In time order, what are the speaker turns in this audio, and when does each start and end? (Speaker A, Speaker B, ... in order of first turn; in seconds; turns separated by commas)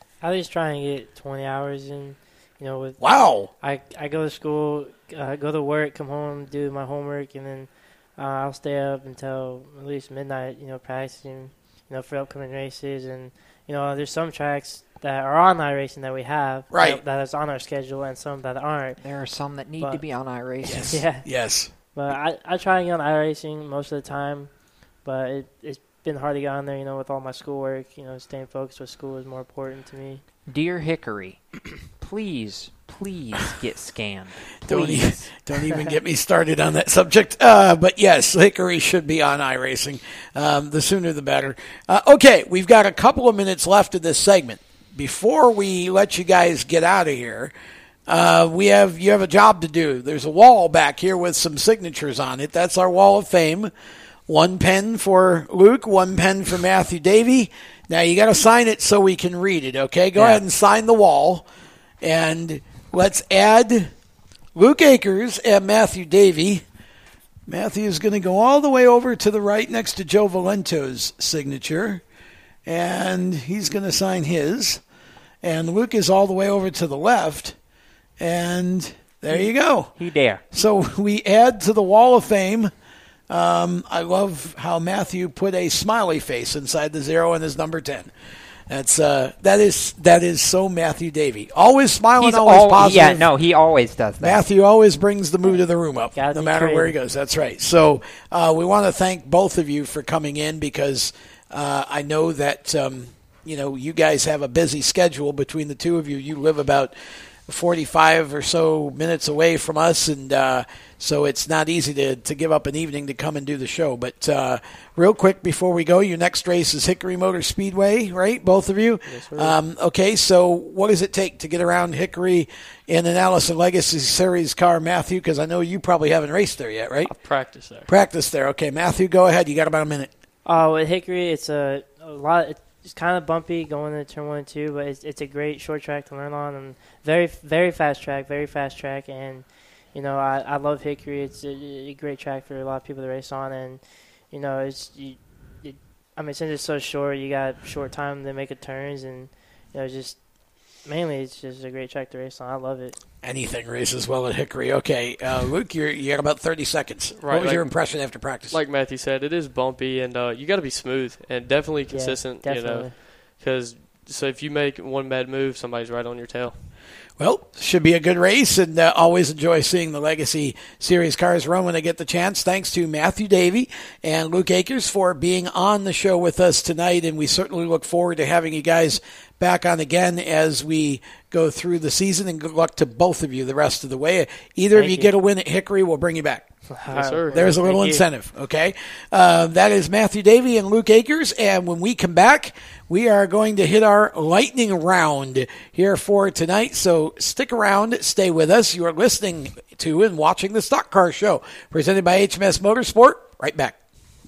Speaker A: 0.2-19.0, Speaker B: 3.0-3.5, Speaker B: 16.7-17.0, Speaker C: 19.0-21.1, Speaker A: 19.8-20.0, Speaker B: 20.6-21.7, Speaker A: 20.9-21.3, Speaker A: 21.9-30.2, Speaker C: 30.5-35.3, Speaker B: 34.6-47.5, Speaker B: 48.1-53.7, Speaker B: 54.3-61.5, Speaker C: 60.1-60.4, Speaker B: 62.0-63.9, Speaker B: 64.5-66.6, Speaker B: 67.5-72.0, Speaker B: 72.7-74.8, Speaker B: 75.4-77.5, Speaker B: 78.2-79.9, Speaker C: 79.3-80.4, Speaker B: 80.5-82.7, Speaker B: 83.3-88.1, Speaker B: 88.7-93.3, Speaker C: 92.2-94.4, Speaker B: 94.2-106.9, Speaker A: 96.1-97.0, Speaker B: 107.5-127.2, Speaker D: 119.1-119.6, Speaker D: 127.0-127.9, Speaker B: 127.8-130.1, Speaker A: 130.4-150.2, Speaker A: 150.8-153.0, Speaker B: 153.2-158.6, Speaker D: 157.2-157.7, Speaker D: 158.5-166.7, Speaker A: 161.9-163.0, Speaker B: 167.2-186.5, Speaker A: 184.7-185.1, Speaker A: 186.7-188.0, Speaker D: 186.9-187.4, Speaker B: 187.3-203.8